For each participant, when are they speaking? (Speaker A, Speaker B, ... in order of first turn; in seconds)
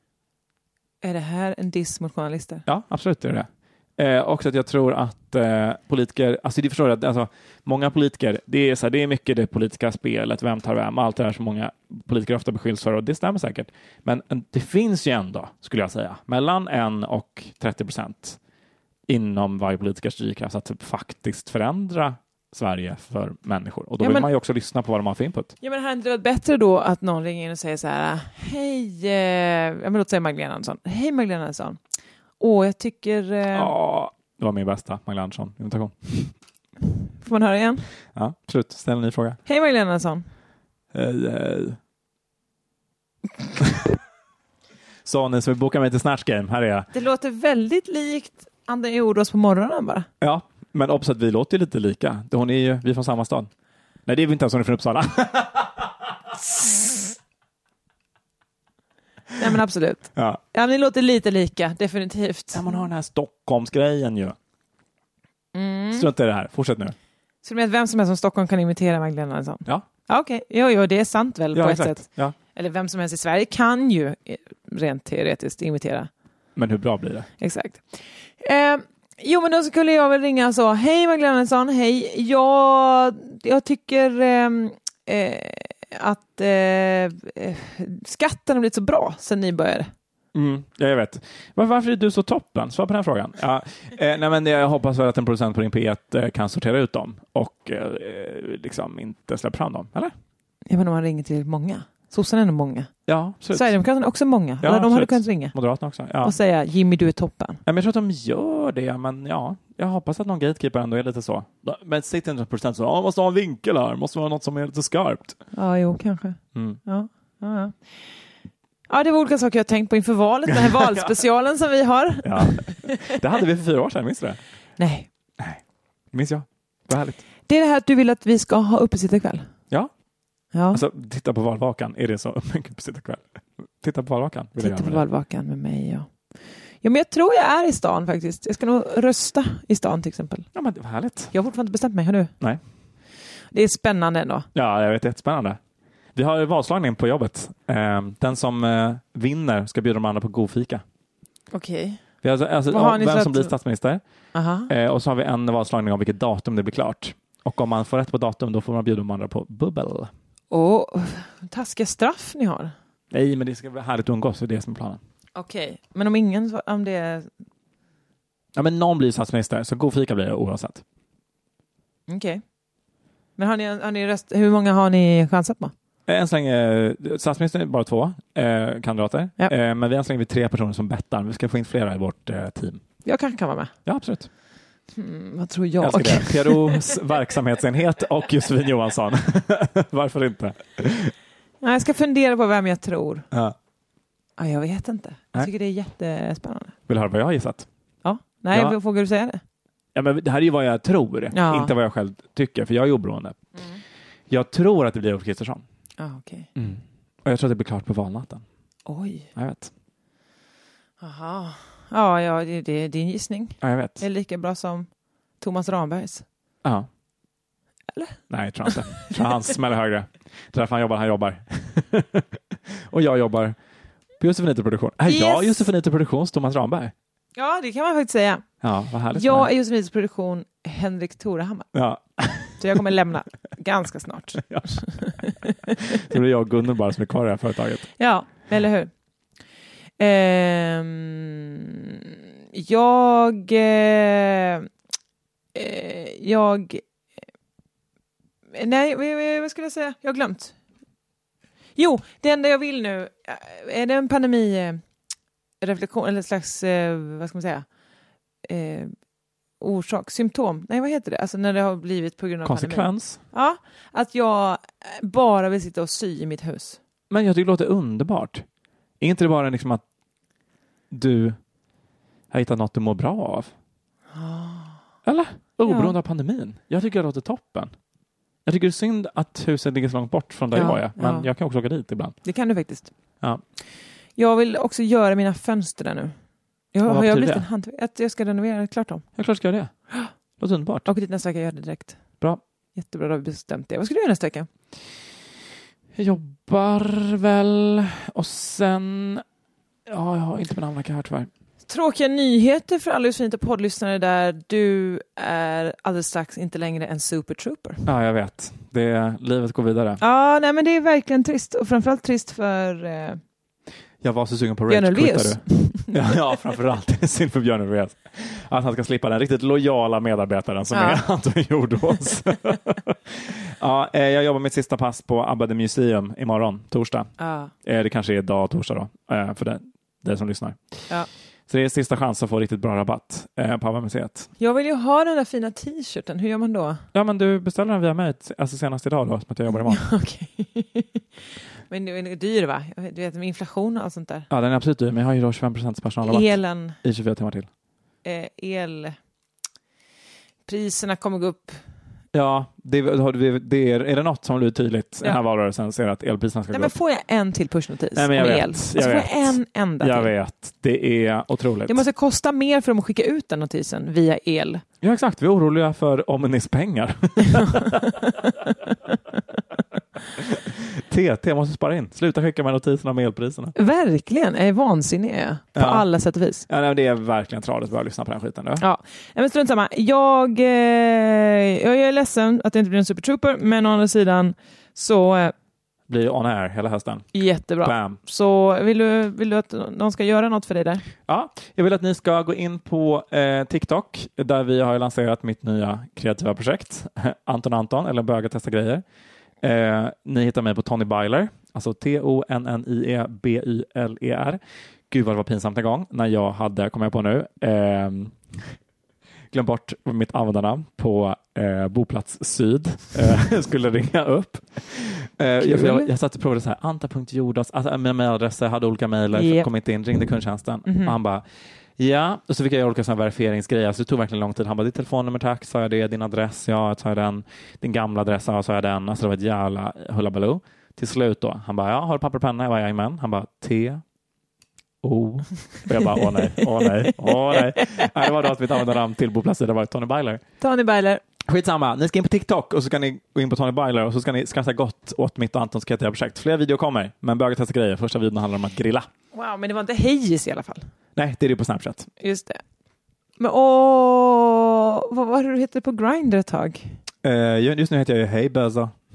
Speaker A: 1.0-2.6, 24.0-24.3, 25.6-31.8, 32.4-33.7, 37.2-37.9, 39.5-40.3, 46.9-50.1, 59.4-62.8, 65.5-66.1, 67.4-76.1, 77.4-89.9, 100.7-102.9, 103.5-105.5, 106.2-107.6, 115.5-117.9, 118.9-123.2, 124.8-125.1, 127.5-129.4, 130.5-130.8, 134.6-136.1, 136.8-140.4, 141.3-142.3, 143.5-144.5, 151.5-152.0, 152.7-153.5, 154.3-154.7, 160.5-162.7, 165.3-167.3, 172.1-172.4, 173.4-175.7, 183.0-183.7, 184.9-186.9, 191.6-193.2, 194.4-196.7, 198.0-199.4, 201.3-201.7, 206.0-206.5, 208.8-209.3, 211.0-214.9, 215.4-216.2, 217.9-218.2, 218.7-219.1, 225.1-225.7, 227.3-228.4, 229.1-231.7, 232.6-236.0, 238.0-238.9, 240.0-244.7, 245.5-246.8, 248.5-250.6, 251.8-254.8, 255.6-257.6, 258.4-258.9, 259.6-266.8, 274.1-274.8, 275.6-275.9, 280.5-281.3, 282.2-282.9, 284.2-286.1, 286.7-289.0, 290.9-292.0, 292.8-294.5, 301.7-307.8, 310.0-313.2, 314.7-315.9, 320.7-321.0, 327.2-327.5, 334.4-336.8, 339.7-341.0, 341.7-344.3, 346.0-346.8, 348.0-349.0, 350.5-351.6, 356.5-360.1, 361.7-364.6, 367.7-368.3, 373.6-376.4, 378.6-385.3, 387.1-390.9, 415.4-415.9, 419.1-419.5, 420.6-420.9, 436.3-437.1, 440.4-441.0, 449.1-450.7, 452.0-452.4, 453.2-456.7
Speaker B: 2.6-18.4, 19.1-25.5, 33.5-36.3, 38.1-39.4, 40.9-41.8, 45.0-46.9, 50.2-53.5, 54.0-55.9, 60.1-60.4, 62.5-64.3, 65.9-66.9, 71.5-72.3, 76.5-77.3, 90.3-100.1, 103.1-103.7, 104.6-106.3, 107.7-115.4, 116.5-116.8, 120.5-121.1, 122.2-124.4, 125.4-127.2, 130.7-135.0, 140.5-141.3, 144.5-145.6, 146.1-150.8, 152.2-154.0, 154.7-160.1, 163.1-165.0, 168.5-170.8, 176.1-182.8, 183.8-184.3, 185.8-191.1, 196.9-197.7, 198.5-198.8, 199.9-203.4, 204.3-205.6, 206.6-208.4, 209.3-209.7, 213.6-214.0, 218.3-223.6, 224.2-226.9, 228.6-229.5, 231.7-232.8, 235.7-237.9, 262.4-263.2, 267.1-268.4, 269.0-269.8, 270.9-271.4, 272.3-273.5, 275.0-277.7, 278.4-282.1, 286.8-287.4, 289.2-289.7, 290.4-290.9, 295.9-299.2, 299.9-301.3, 307.8-310.0, 314.0-327.1, 327.6-330.8, 331.5-334.3, 336.9-339.8, 344.3-347.5, 352.1-356.7, 357.9-361.8, 364.8-368.0, 370.1-373.5, 375.5-375.9, 376.5-378.6, 385.9-388.0, 391.1-398.8, 399.4-408.6, 409.3-433.8, 434.8-440.2, 441.2-448.9, 450.9-451.9, 457.0-458.7